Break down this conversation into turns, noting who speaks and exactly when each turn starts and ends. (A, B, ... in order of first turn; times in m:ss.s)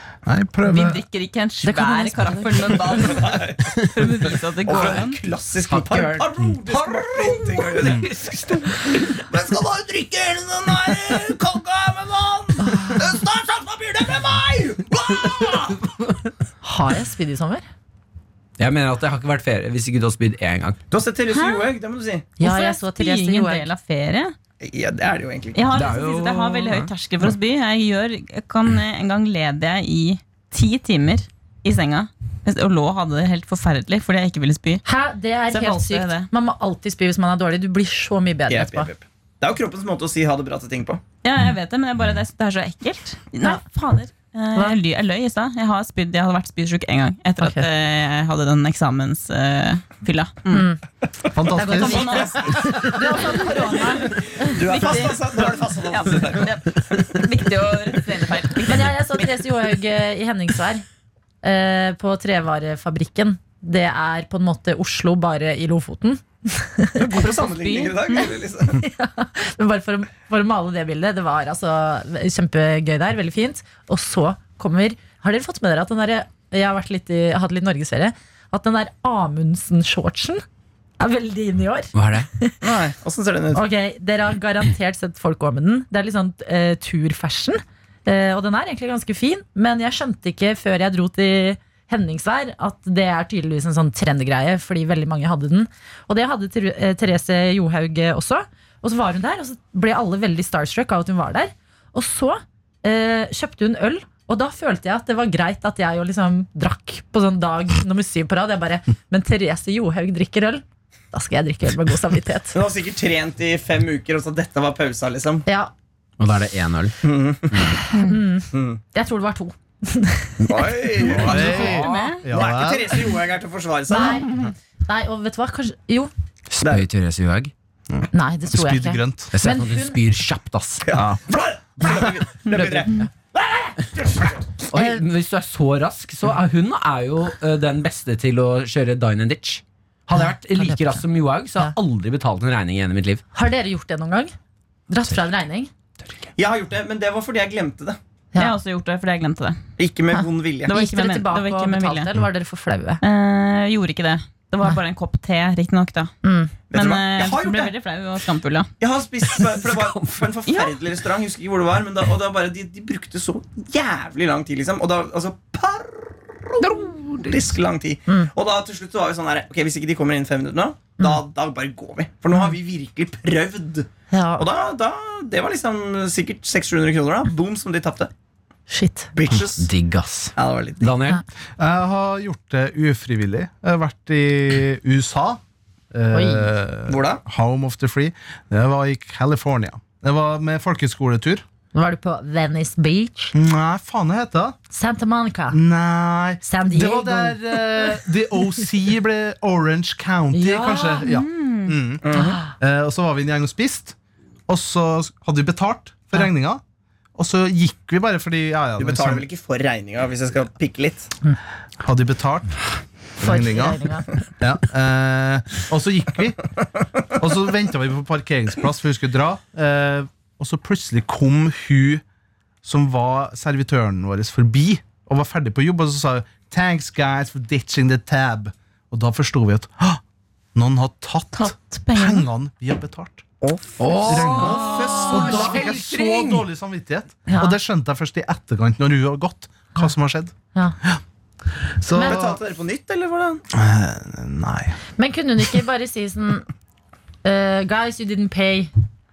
0:00.2-0:01.0 A
0:00.6-0:05.2 B
0:01.6-0:03.2 C
0:02.9-0:03.8 D
0:04.6-0:08.1 D
0:05.7-0:09.3 E
0:09.2-0:15.8 D
0:12.6-0:13.0 C
0:16.6-0:17.6 C
0:18.6-0:20.8 E
0:20.9-0:22.3 D
0:21.3-0:21.7 B
0:22.4-0:24.3 B
0:22.4-0:23.7 C
0:24.6-0:25.7 D
0:25.5-0:34.8 B
0:25.7-0:26.8 E
0:34.8-0:38.9 C
0:35.5-0:36.3 B
0:38.5-0:41.0 D
0:41.2-0:50.7 B
0:47.4-0:47.7 C
0:50.5-0:50.8 C
0:51.3-0:52.3 A
0:51.5-0:55.1 C
0:51.6-0:59.3 B
0:51.8-0:53.5 D
0:54.4-0:56.8 D
0:58.6-1:00.8 C
1:01.4-1:07.2 C
1:07.0-1:08.8 D
1:07.4-1:08.4 B
1:08.8-1:20.4 C
1:21.0-1:22.6 C
1:21.9-1:22.3 E
1:22.6-1:23.6 D
1:23.5-1:52.6 C
1:52.5-1:55.4 D
1:55.5-1:55.7 C
1:56.2-1:57.0 E
1:57.0-1:57.8 D
1:57.9-2:00.7 C
1:57.9-1:58.2 B
1:58.5-1:58.8 D
2:00.4-2:04.2 D
2:01.0-2:03.0 A
2:01.0-2:02.2 E
2:01.8-2:02.2 B
2:03.9-2:06.1 C
2:06.5-2:07.5 E
2:07.9-2:09.3 A
2:08.1-2:10.0 C
2:09.3-2:10.8 E
2:10.8-2:14.6 D
2:10.9-2:11.2 A
2:12.5-2:13.1 C
2:14.7-2:23.2 E
2:14.7-2:15.0 C
2:20.6-2:21.0 C
2:23.3-2:24.3 C
2:24.9-2:25.7 C
2:26.4-2:28.0 D
2:28.4-2:29.6 B
2:29.8-2:30.7 D
2:30.1-2:33.0 C
2:30.6-2:32.1 B
2:33.0-2:36.1 B
2:36.2-2:36.5 C
2:36.7-2:37.7 D
2:36.7-2:38.7 B
2:38.8-2:58.1 D
2:39.5-2:40.3 E
2:40.5-2:40.8 B
2:46.6-2:47.5 E
2:54.1-2:54.4 C
2:58.7-2:59.1 C
2:59.1-2:59.7 D
2:59.3-3:01.2 E
3:00.4-3:00.9 D
3:01.6-3:05.4 A
3:05.9-3:11.4 A
3:06.1-3:06.5 C
3:06.9-3:07.2 D
3:11.7-3:13.3 C
3:13.3-3:14.6 A
3:14.7-3:15.6 C
3:15.5-3:23.9 A
3:16.4-3:18.1 C
3:20.3-3:21.1 C
3:21.0-3:21.8 B
3:22.0-3:22.4 D
3:22.2-3:22.4 C
3:24.5-3:26.6 A
3:27.2-3:29.2 A
3:28.8-3:31.1 D
3:31.8-3:32.6 A
3:33.2-3:33.8 A
3:33.2-3:34.1 C
3:34.4-3:36.4 A
3:37.2-3:42.0 A
3:42.6-3:50.0 A
3:50.5-3:53.2 A
3:51.4-3:52.2 B
3:53.4-3:55.7 D
3:53.8-3:56.4 E
3:54.0-4:01.0 A
3:57.3-3:57.5 C
4:01.8-4:02.4 A
4:01.9-4:02.2 C
4:02.0-4:03.4 D
4:03.5-4:04.8 A
4:05.0-4:06.5 C
4:07.2-4:08.7 C